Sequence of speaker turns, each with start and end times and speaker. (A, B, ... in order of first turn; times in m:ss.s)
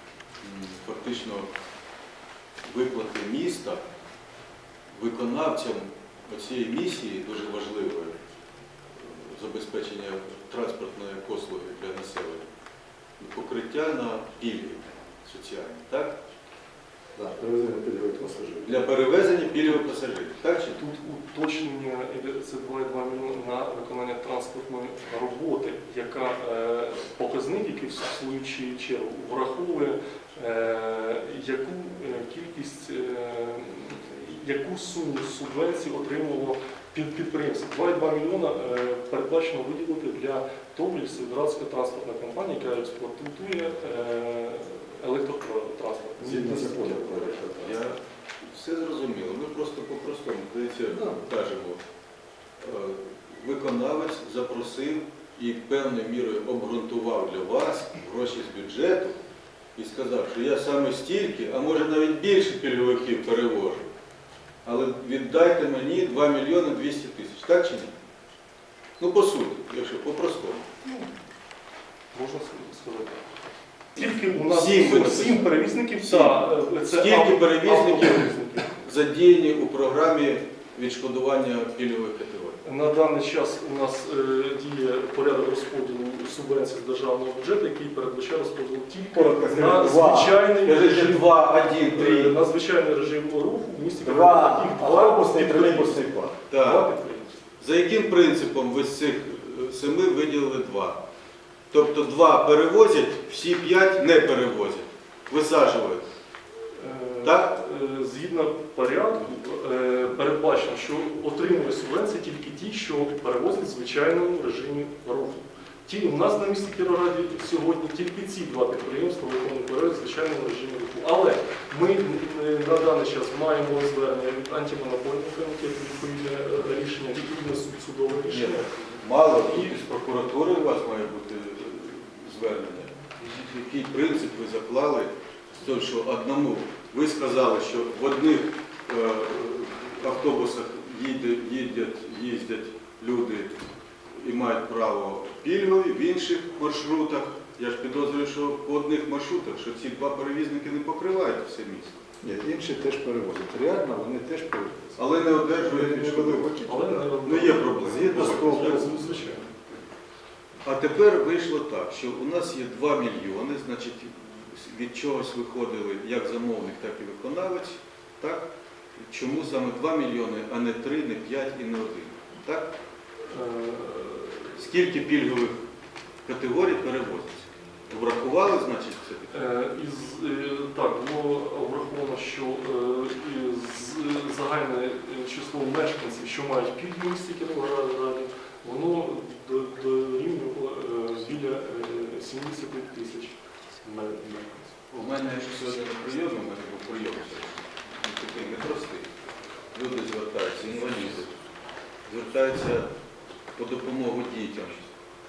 0:00.4-0:01.5 A
0:02.6-0:03.8 A
0:04.9-0:08.2 A
0:08.9-0:12.5 A
0:13.2-0:16.2 A
0:17.2-0:19.0 B
0:18.6-0:20.8 A
0:20.8-0:47.7 C
0:46.2-0:47.7 B
0:47.5-0:51.8 A
0:50.9-0:51.2 B
0:52.6-0:59.2 A
0:59.8-1:03.8 A
1:04.6-1:07.9 A
1:09.0-1:10.7 A
1:12.1-1:13.2 C
1:13.9-1:18.7 C
1:14.0-1:22.6 A
1:22.6-1:37.3 C
1:29.1-1:30.4 B
1:30.6-1:32.4 A
1:34.0-1:36.6 B
1:36.5-1:36.9 A
1:37.6-1:41.0 A
1:41.7-1:46.0 A
1:46.7-2:09.8 C
1:47.2-1:47.6 A
2:08.3-2:23.6 A
2:24.1-2:32.0 A
2:32.2-2:37.1 B
2:35.0-2:36.7 A
2:36.6-2:39.5 C
2:37.2-2:38.9 A
2:37.8-2:39.0 B
2:40.6-2:52.7 A
2:53.3-2:54.6 C
2:54.6-2:55.6 A
2:56.2-2:59.4 A
2:59.3-3:14.7 C
3:14.9-3:19.1 A
3:19.7-3:21.4 A
3:22.0-3:22.9 A
3:23.5-3:24.9 A